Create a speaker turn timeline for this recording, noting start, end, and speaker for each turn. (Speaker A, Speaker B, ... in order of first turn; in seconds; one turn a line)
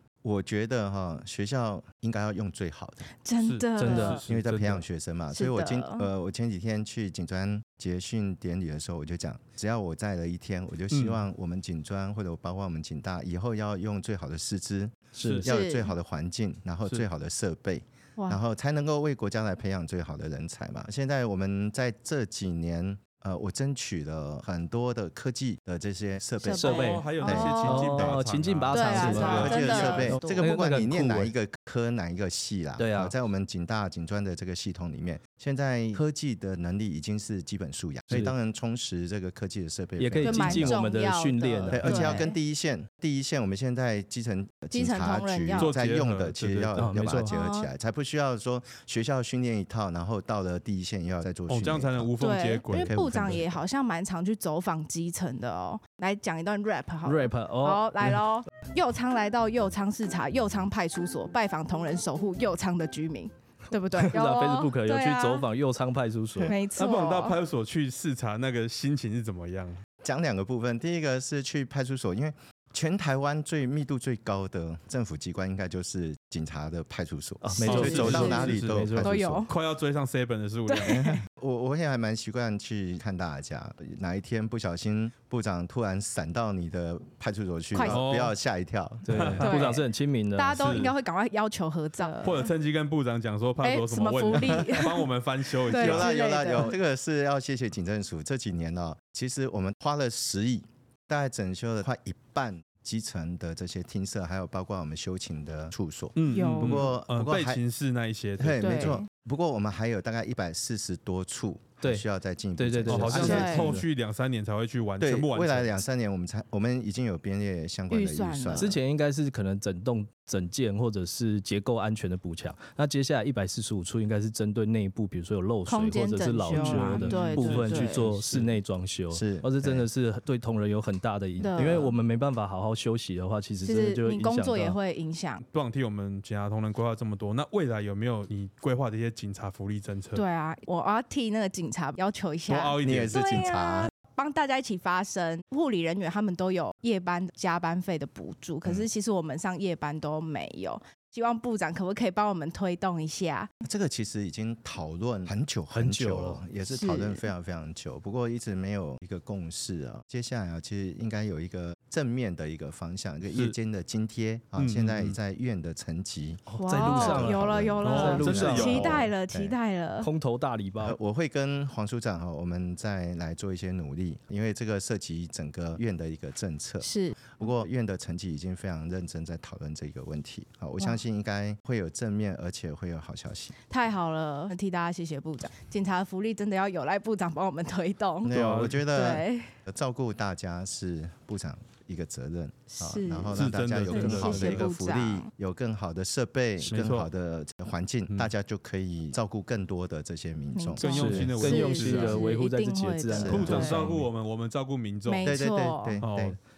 Speaker A: 0.2-3.0
Speaker B: 3.2-4.2
Speaker C: 3.4-4.3
Speaker D: 3.8-4.8
Speaker A: 4.3-28.2
Speaker B: 5.3-6.1
Speaker C: 10.9-11.2
Speaker D: 15.2-15.5
Speaker C: 15.2-15.5
Speaker B: 15.4-15.9
Speaker B: 26.4-27.9
Speaker D: 26.5-27.1
Speaker C: 26.7-29.9
Speaker D: 27.6-31.3
Speaker B: 28.7-30.5
Speaker A: 29.0-40.8
Speaker D: 32.8-33.1
Speaker D: 38.1-38.4
Speaker D: 40.0-42.2
Speaker B: 40.2-42.4
Speaker A: 41.7-52.1
Speaker B: 44.7-45.7
Speaker C: 45.6-46.9
Speaker D: 46.8-47.4
Speaker B: 47.3-47.7
Speaker C: 51.5-52.9
Speaker B: 52.2-65.5
Speaker A: 52.7-53.6
Speaker D: 57.0-58.2
Speaker D: 64.0-66.6
Speaker B: 66.4-67.4
Speaker C: 66.8-69.8
Speaker A: 70.0-79.5
Speaker D: 77.4-79.4
Speaker C: 77.6-78.9
Speaker B: 77.7-78.5
Speaker B: 79.0-79.5
Speaker C: 79.5-81.0
Speaker B: 80.7-81.2
Speaker A: 80.9-89.3
Speaker B: 87.7-88.0
Speaker C: 87.8-88.3
Speaker D: 89.1-90.9
Speaker C: 89.1-89.5
Speaker B: 89.4-92.5
Speaker C: 90.6-91.0
Speaker C: 92.2-96.2
Speaker B: 93.6-95.0
Speaker A: 94.3-94.9
Speaker B: 95.7-96.8
Speaker A: 95.7-107.6
Speaker C: 106.2-109.0
Speaker B: 106.3-106.9
Speaker A: 108.4-113.8
Speaker B: 108.6-109.1
Speaker D: 112.6-113.8
Speaker C: 112.9-115.8
Speaker B: 113.1-113.8
Speaker A: 115.0-118.8
Speaker B: 117.9-118.8
Speaker D: 118.5-134.8
Speaker B: 125.7-128.1
Speaker C: 126.7-128.6
Speaker A: 129.1-129.9
Speaker B: 131.4-131.9
Speaker B: 133.6-135.4
Speaker C: 135.4-140.2
Speaker B: 140.2-153.5
Speaker C: 142.5-143.5
Speaker A: 142.8-143.9
Speaker A: 153.6-169.6
Speaker D: 155.7-156.4
Speaker B: 156.7-157.2
Speaker C: 163.3-163.6
Speaker C: 164.6-165.2
Speaker D: 166.5-168.9
Speaker B: 166.6-170.1
Speaker C: 167.8-168.9
Speaker D: 170.0-171.0
Speaker A: 170.8-183.5
Speaker B: 176.8-177.5
Speaker B: 183.7-188.3
Speaker A: 188.2-201.3
Speaker C: 188.3-188.8
Speaker B: 188.9-189.5
Speaker B: 192.7-195.3
Speaker C: 193.3-194.7
Speaker D: 196.6-196.9
Speaker C: 196.8-197.1
Speaker B: 200.6-203.9
Speaker C: 200.8-202.3
Speaker D: 200.8-204.1
Speaker A: 203.1-203.7
Speaker C: 203.3-205.3
Speaker B: 205.1-206.0
Speaker A: 205.2-206.4
Speaker C: 206.0-206.4